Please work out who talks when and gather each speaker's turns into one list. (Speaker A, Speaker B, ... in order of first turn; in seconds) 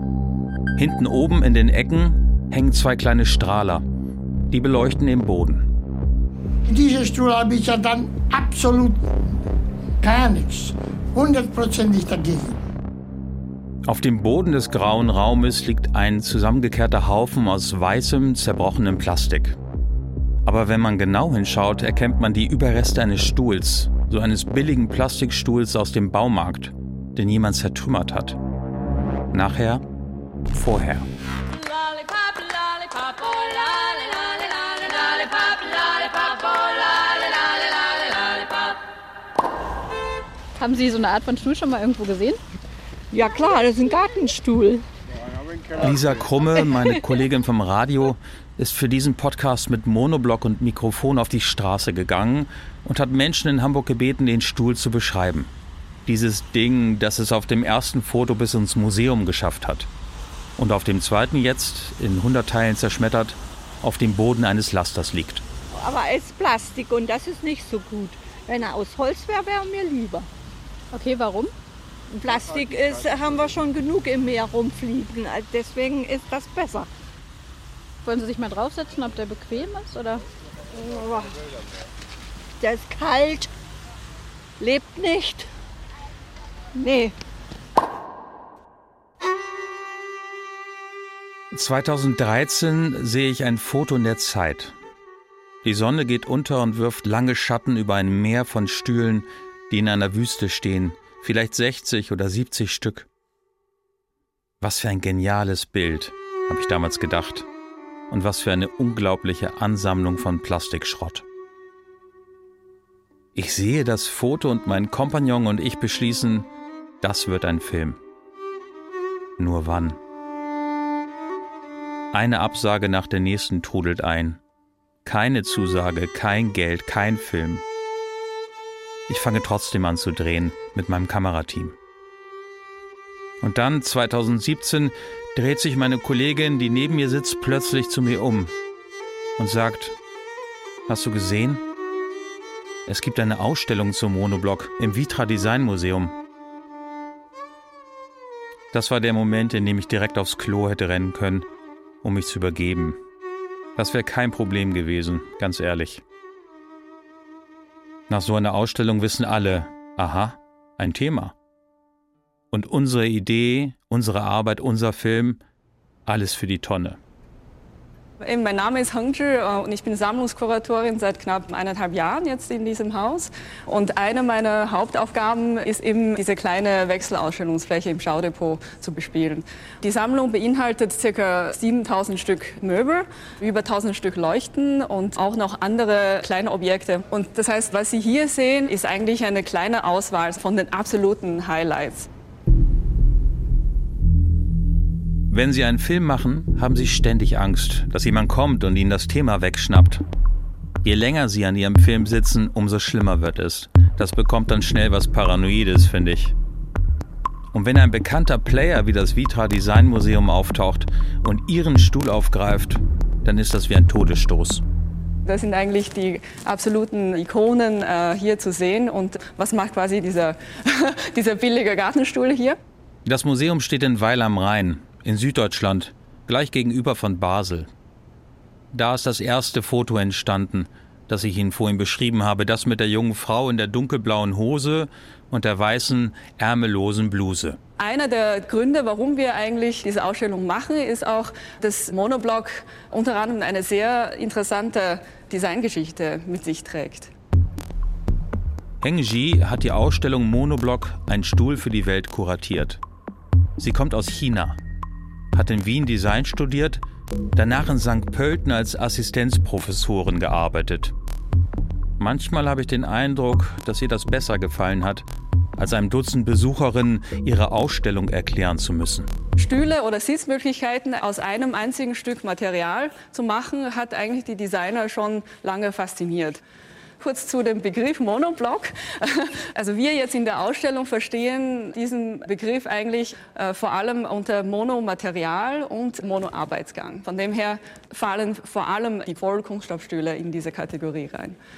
Speaker A: 0.8-3.9, 4.5-5.7, 13.9-19.6, 20.4-28.4, 29.3-29.8, 30.5-31.1, 45.8-55.5, 56.1-59.9, 60.6-65.4, 91.5-94.8, 95.6-103.1, 104.6-107.5, 108.1-111.2, 113.3-116.5, 117.0-118.0, 119.4-120.0, 122.1-124.4, 125.0-127.7, 129.1-131.8, 133.4-138.5, 139.4-140.0, 140.9-141.6, 142.9-146.2, 148.7-151.5, 152.0-153.0, 153.8-156.0, 158.1-161.3, 162.5-165.4, 166.1-167.0, 195.3-200.0, 200.8-206.3, 207.5-214.6, 223.1-227.7, 228.7-237.6, 248.8-252.8, 253.6-254.6, 255.3-256.8, 257.4-260.9, 262.0-265.1, 265.6-269.1
Speaker B: 6.7-9.1, 10.0-12.6
Speaker C: 40.6-42.4, 70.9-71.5, 78.0-80.2
Speaker D: 43.1-44.8, 65.8-70.3, 72.1-76.9, 80.7-81.4, 82.6-83.5, 84.6-85.5, 86.8-87.1
Speaker E: 168.2-192.1, 215.3-222.6, 237.8-247.1, 269.4-276.4, 277.0-291.4